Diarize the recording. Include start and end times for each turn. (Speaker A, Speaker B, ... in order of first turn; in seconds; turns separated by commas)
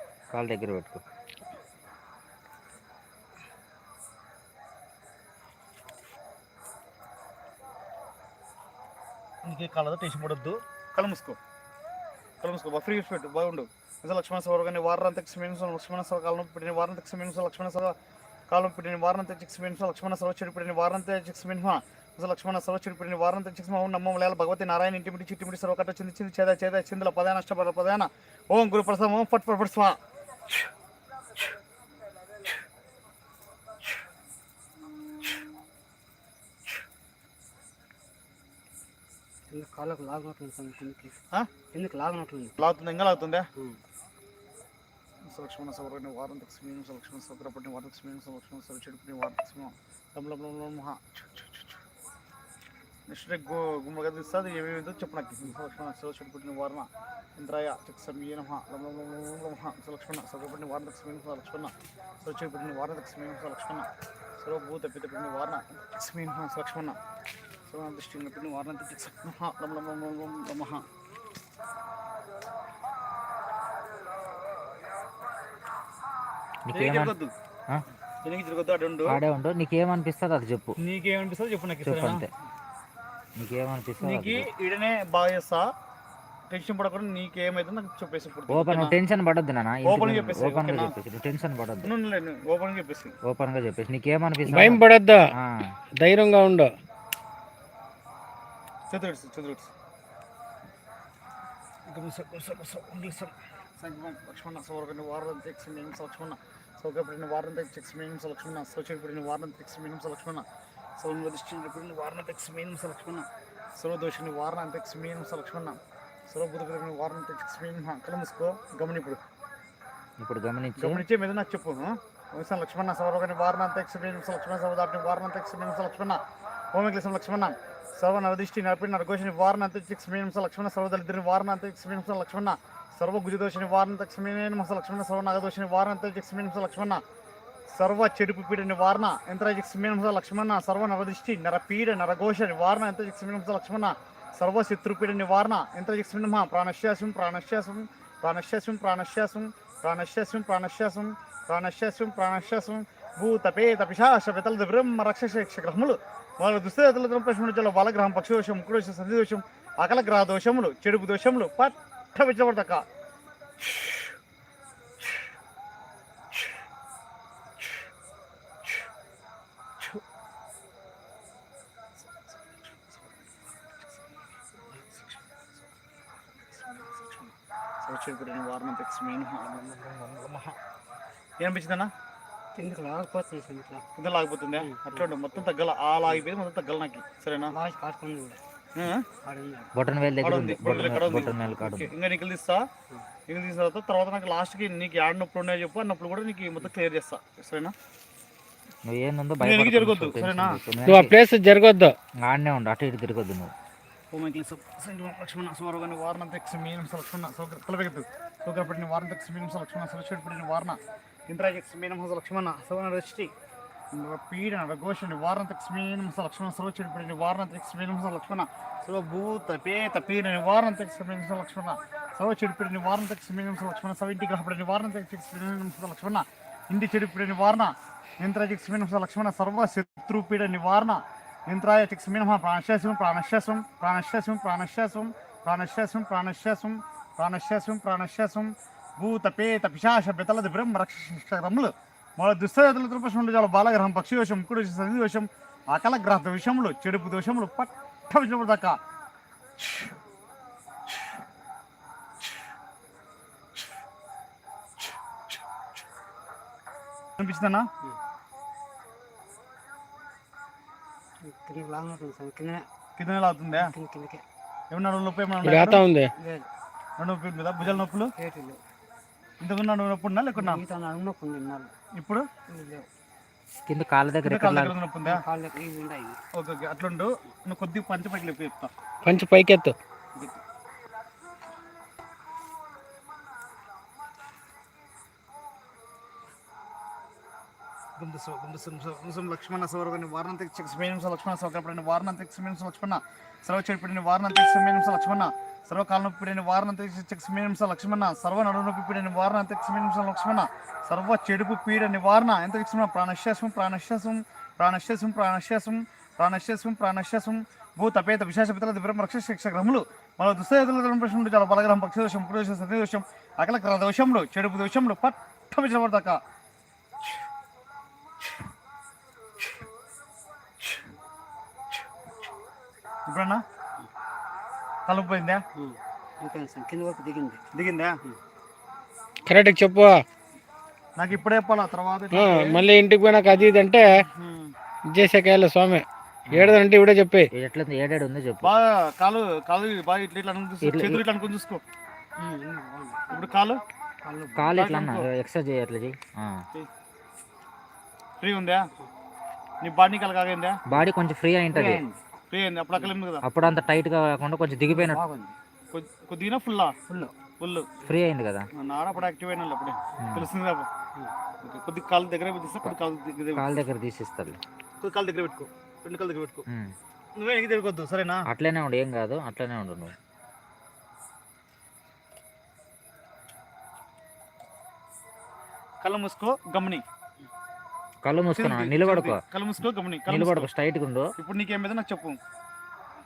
Speaker A: 0.3-1.0, Speaker B: 9.4-11.4, Speaker B: 12.4-17.9, Speaker B: 18.5-30.0, Speaker C: 39.5-41.1, Speaker C: 41.7-42.6, Speaker B: 42.6-43.4, Speaker B: 45.3-51.7, Speaker B: 53.1-63.9, Speaker B: 64.4-67.0, Speaker B: 67.7-70.8, Speaker A: 76.7-77.1, Speaker B: 76.7-77.3, Speaker B: 78.2-79.2, Speaker A: 79.1-80.8, Speaker B: 80.8-82.3, Speaker A: 81.8-82.3, Speaker A: 83.4-84.5, Speaker B: 84.0-85.7, Speaker B: 86.5-89.0, Speaker A: 88.5-91.9, Speaker B: 89.8-91.0, Speaker B: 91.8-93.2, Speaker A: 93.2-94.8, Speaker D: 94.5-95.3, Speaker A: 95.4-95.7, Speaker D: 96.0-96.7, Speaker B: 98.9-99.7, Speaker B: 101.9-110.5, Speaker B: 111.0-115.8, Speaker B: 116.3-119.2, Speaker A: 120.2-121.0, Speaker B: 120.8-126.2, Speaker B: 126.7-137.0, Speaker B: 137.7-162.8, Speaker B: 172.0-173.2, Speaker B: 174.7-175.6, Speaker B: 176.4-180.6, Speaker B: 181.4-181.9, Speaker C: 182.6-183.8, Speaker B: 184.0-187.6, Speaker C: 184.6-185.1, Speaker C: 187.5-188.4, Speaker B: 188.8-189.1, Speaker C: 189.2-189.7, Speaker A: 189.8-191.9, Speaker B: 190.2-192.7, Speaker B: 193.3-197.7, Speaker A: 198.8-201.1, Speaker B: 199.4-200.6, Speaker D: 200.8-201.9, Speaker A: 202.3-203.5, Speaker B: 204.1-213.3, Speaker B: 213.9-248.8, Speaker B: 257.2-257.7, Speaker C: 261.2-262.6, Speaker B: 263.0-263.7, Speaker C: 263.5-264.2, Speaker B: 264.7-265.8, Speaker D: 265.4-266.1, Speaker C: 266.2-266.5, Speaker B: 267.0-268.1, Speaker C: 267.6-268.6, Speaker B: 269.4-270.6, Speaker C: 270.4-271.7, Speaker B: 272.0-272.2, Speaker C: 272.5-272.9, Speaker A: 273.6-274.8, Speaker B: 274.2-275.2, Speaker C: 275.0-276.2, Speaker B: 276.4-278.7, Speaker D: 279.1-279.8, Speaker B: 288.0-316.2, Speaker B: 323.1-323.4, Speaker B: 324.9-325.4, Speaker C: 325.6-327.4, Speaker B: 327.5-328.0, Speaker D: 329.3-330.0, Speaker B: 331.0-332.7, Speaker D: 332.1-333.9, Speaker B: 333.9-334.5, Speaker D: 334.9-335.9, Speaker A: 336.3-336.6, Speaker D: 336.4-337.3, Speaker A: 337.3-338.5, Speaker B: 338.4-341.6, Speaker A: 340.6-341.1, Speaker C: 342.2-343.1, Speaker B: 343.1-343.6, Speaker C: 344.0-344.6, Speaker A: 344.4-346.4, Speaker B: 344.6-345.1, Speaker B: 348.2-348.6, Speaker B: 349.6-350.6, Speaker A: 350.7-351.8, Speaker C: 351.5-352.0, Speaker B: 352.3-353.2, Speaker A: 353.2-355.0, Speaker C: 354.7-355.4, Speaker B: 355.7-356.8, Speaker C: 356.9-357.1, Speaker B: 357.4-357.7, Speaker A: 357.9-358.5, Speaker B: 358.6-360.7, Speaker A: 360.0-360.3, Speaker B: 361.4-363.6, Speaker A: 363.3-364.4, Speaker B: 364.8-366.5, Speaker A: 366.5-366.7, Speaker B: 367.2-368.3, Speaker A: 368.3-369.9, Speaker B: 375.8-376.8, Speaker A: 378.0-379.2, Speaker B: 378.4-380.5, Speaker A: 380.1-381.1, Speaker B: 381.2-382.2